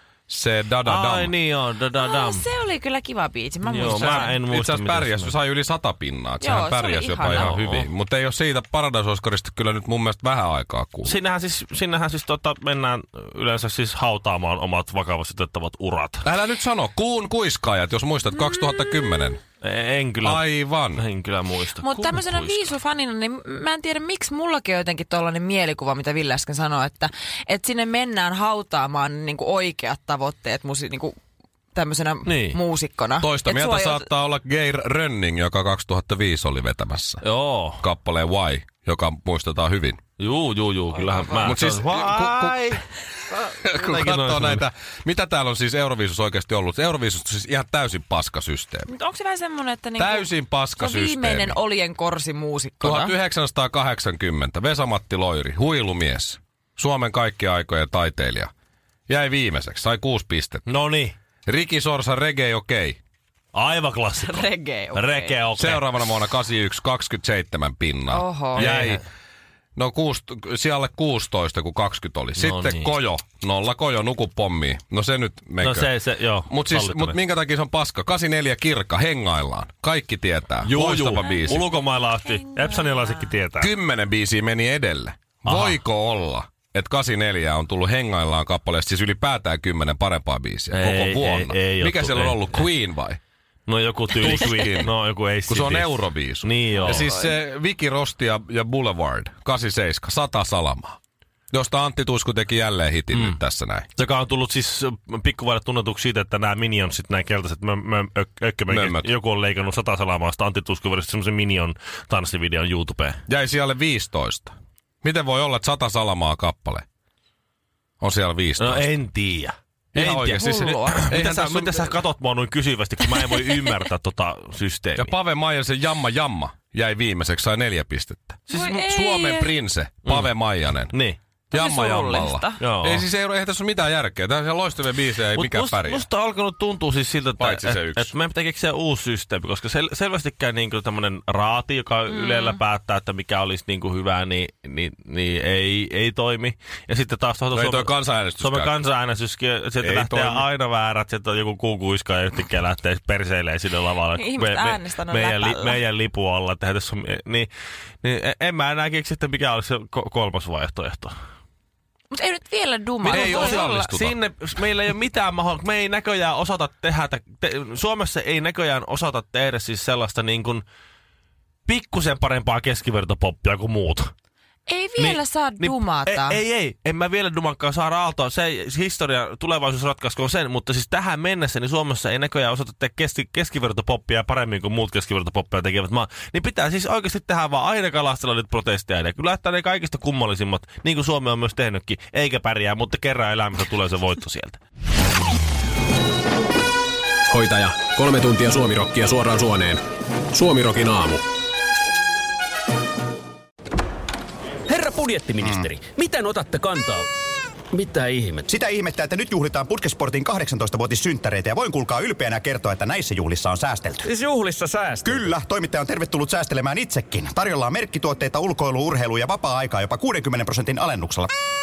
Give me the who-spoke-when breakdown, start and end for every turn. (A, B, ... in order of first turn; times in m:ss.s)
0:00.3-0:01.3 A
0:00.8-0:02.5 B
0:02.0-0:04.3 C
0:03.7-0:05.3 B
0:03.8-0:11.2 A
0:06.4-0:07.5 C
0:07.3-0:07.9 B
0:11.0-0:16.3 B
0:16.2-0:19.4 A
0:19.6-0:22.7 B
0:20.2-0:21.0 A
0:21.8-0:31.2 C
0:31.8-0:34.1 C
0:32.3-0:32.6 B
0:33.2-0:37.2 A
0:37.2-0:37.8 B
0:37.8-0:40.0 A
0:40.2-0:44.6 B
0:41.4-0:48.9 A
0:48.9-0:53.1 C
0:50.0-0:51.6 A
0:52.8-0:58.5 A
0:59.1-1:00.6 A
1:00.7-1:01.2 B
1:01.5-1:03.0 A
1:03.5-1:05.9 B
1:04.2-1:05.4 C
1:05.6-1:09.0 A
1:08.1-1:08.7 C
1:08.6-1:09.0 B
1:09.8-1:15.9 A
1:12.4-1:12.9 B
1:15.6-1:17.2 B
1:16.5-1:21.6 A
1:20.6-1:23.7 B
1:22.3-1:23.3 C
1:23.6-1:33.2 A
1:25.4-1:25.8 B
1:30.7-1:32.6 B
1:33.7-1:37.1 B
1:34.2-1:34.9 A
1:35.5-1:41.0 A
1:36.9-1:37.3 C
1:41.5-1:43.9 A
1:44.0-1:53.2 B
1:48.7-1:49.1 A
1:53.3-1:54.5 A
1:55.0-1:56.8 A
1:58.0-1:58.9 A
1:58.6-2:05.1 B
1:59.9-2:01.9 A
2:00.2-2:01.2 C
2:05.0-2:10.9 A
2:08.5-2:08.8 B
2:08.5-2:09.5 C
2:10.1-2:10.3 B
2:10.9-2:11.2 B
2:11.5-2:16.0 A
2:11.5-2:12.6 C
2:12.6-2:13.0 B
2:15.4-2:37.5 B
2:17.4-2:18.1 A
2:22.1-2:22.6 C
2:27.5-2:28.7 A
2:29.8-2:30.5 A
2:34.2-2:35.8 C
2:38.0-2:41.2 B
2:42.1-2:43.7 C
2:43.0-2:44.2 A
2:43.1-2:50.6 B
2:51.7-2:54.1 B
2:54.7-2:56.4 C
2:55.0-3:14.6 B
3:17.3-3:21.2 D
3:24.7-3:27.1 E
3:25.4-3:25.7 F
3:27.7-3:28.5 E
3:28.5-3:34.1 F
3:34.0-3:35.3 E
3:35.0-3:41.3 F